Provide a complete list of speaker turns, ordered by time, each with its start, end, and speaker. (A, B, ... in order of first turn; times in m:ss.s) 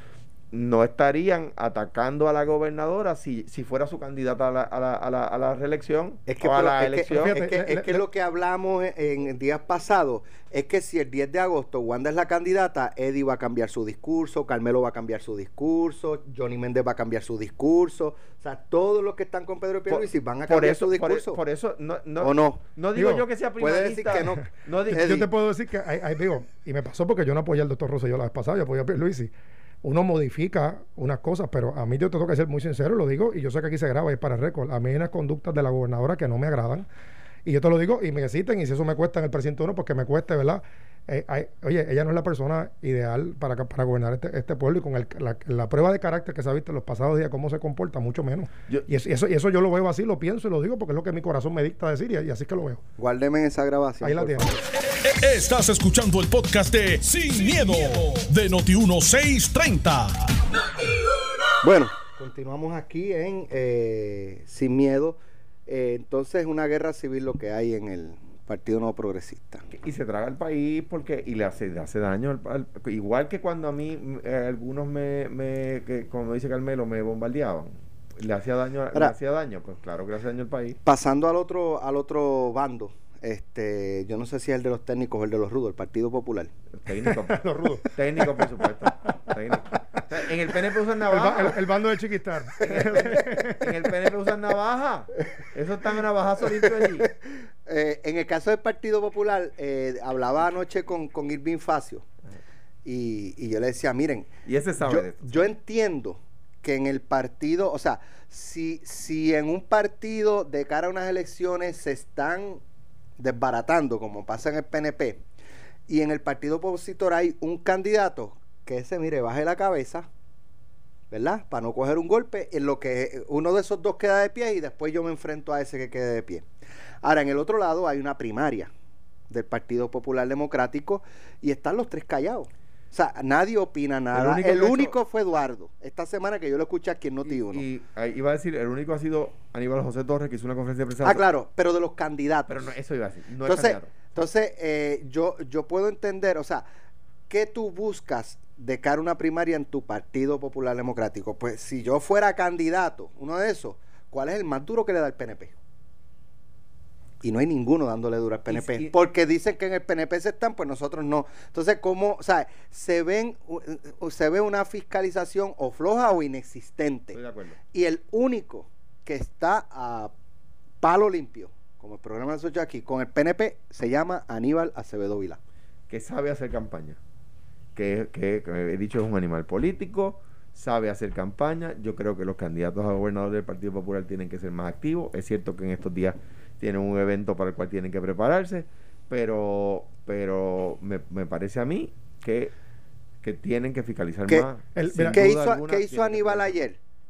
0:00.5-0:08.0 A
0:06.3-0:21.4 B
0:07.1-0:08.0 C
0:19.9-0:25.3 A
0:22.2-0:22.6 B
0:22.9-0:23.2 C
0:23.6-0:25.2 B
0:24.9-0:29.3 C
0:29.8-0:36.8 C
0:37.4-0:52.8 C
0:53.0-0:54.6 B
0:54.0-0:54.5 C
0:54.9-1:00.4 D
1:01.6-1:09.7 B
1:09.7-1:20.8 A
1:20.8-1:26.5 B
1:26.7-1:31.6 A
1:27.1-1:27.9 C
1:31.1-1:33.9 C
1:32.6-1:37.1 A
1:36.6-1:37.1 B
1:37.6-1:42.0 B
1:42.8-1:44.3 B
1:44.4-1:45.5 A
1:44.8-1:52.6 B
1:53.2-1:55.2 B
1:55.9-2:00.1 B
2:01.1-2:06.4 B
2:07.0-2:08.7 B
2:09.3-2:17.6 B
2:14.1-2:15.0 A
2:17.2-2:21.2 A
2:21.0-2:22.7 B
2:22.5-2:24.1 A
2:23.4-2:26.6 B
2:27.3-2:35.5 B
2:37.2-2:47.2 B
2:38.5-2:38.9 A
2:47.1-2:47.6 A
2:47.7-2:50.1 B
2:50.8-2:55.4 B
2:55.9-2:57.0 A
2:57.7-3:12.5 A
3:13.2-3:16.6 A
3:14.7-3:15.2 C
3:15.0-3:16.8 B